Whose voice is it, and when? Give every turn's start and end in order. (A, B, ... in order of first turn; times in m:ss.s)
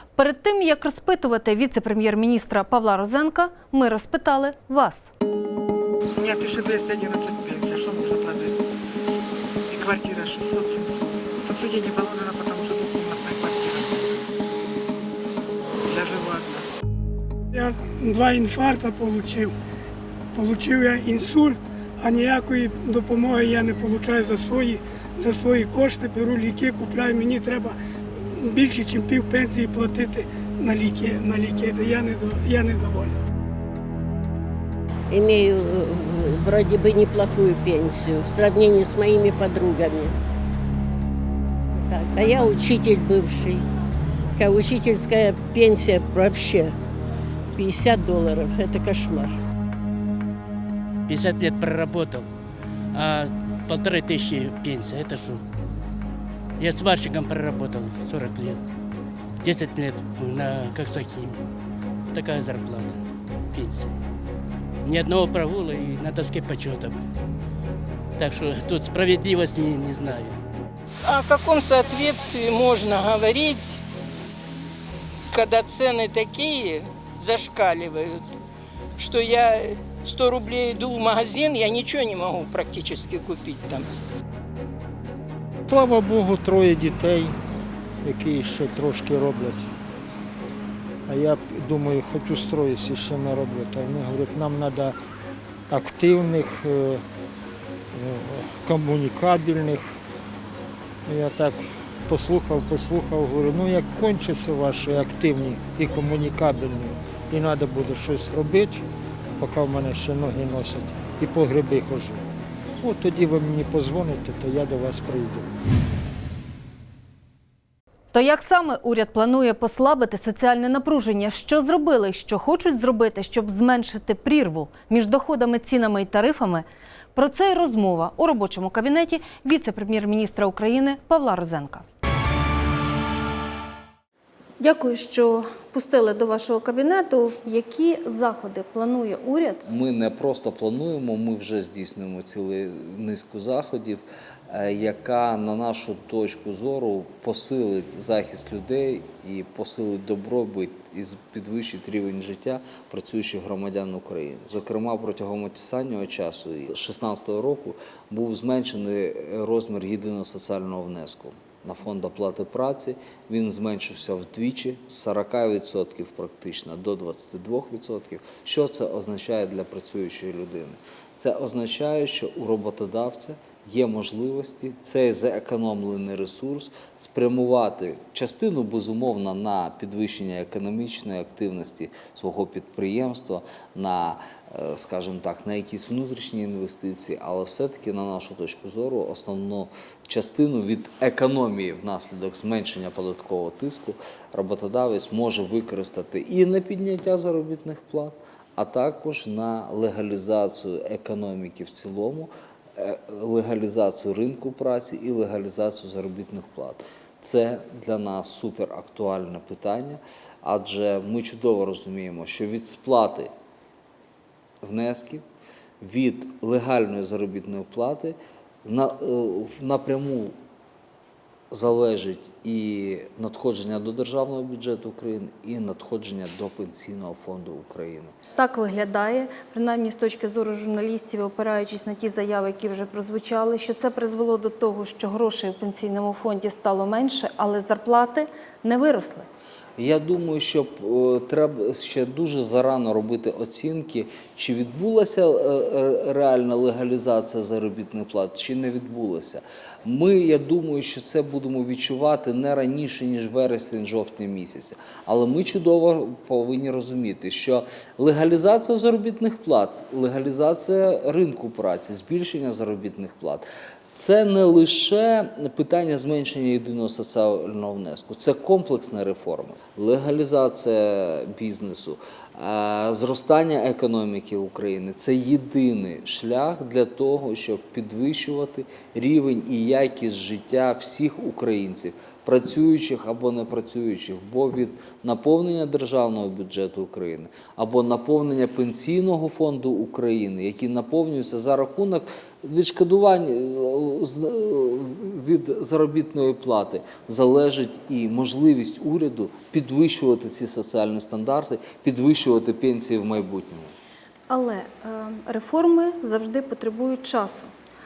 0:00.2-0:05.1 A
0:06.2-0:08.6 B
0:09.7-0:14.1 B
0:15.8-0:16.7 B
0:17.5-0:19.5 C
0:20.3-0:27.8 C
0:28.3-0:33.2 C
0:35.1-0:40.1 D
0:41.9-0:43.6 D
0:44.4-0:46.7 D
0:47.5-0:49.4 D
0:51.1-0:52.3 E
0:52.9-0:55.4 E
0:56.6-0:58.6 E
0:59.4-1:01.4 E
1:02.1-1:03.0 E
1:03.5-1:03.9 E
1:04.8-1:07.0 E
1:08.2-1:10.4 E
1:11.0-1:13.8 F
1:15.3-1:18.3 F
1:19.0-1:23.8 F
1:25.7-1:27.4 G
1:28.0-1:29.7 G
1:31.1-1:34.9 G
1:35.7-1:37.0 G
1:37.9-1:40.0 G
1:41.0-1:48.8 G
1:49.4-1:52.2 G
1:52.8-1:55.5 G
1:58.1-2:11.8 A
2:14.6-2:19.6 A
2:19.6-3:33.3 H
3:34.6-3:35.2 H
3:35.8-3:40.3 H
3:41.5-3:48.1 H
3:48.4-3:59.3 A
3:59.8-5:03.7 H
5:04.3-5:07.5 A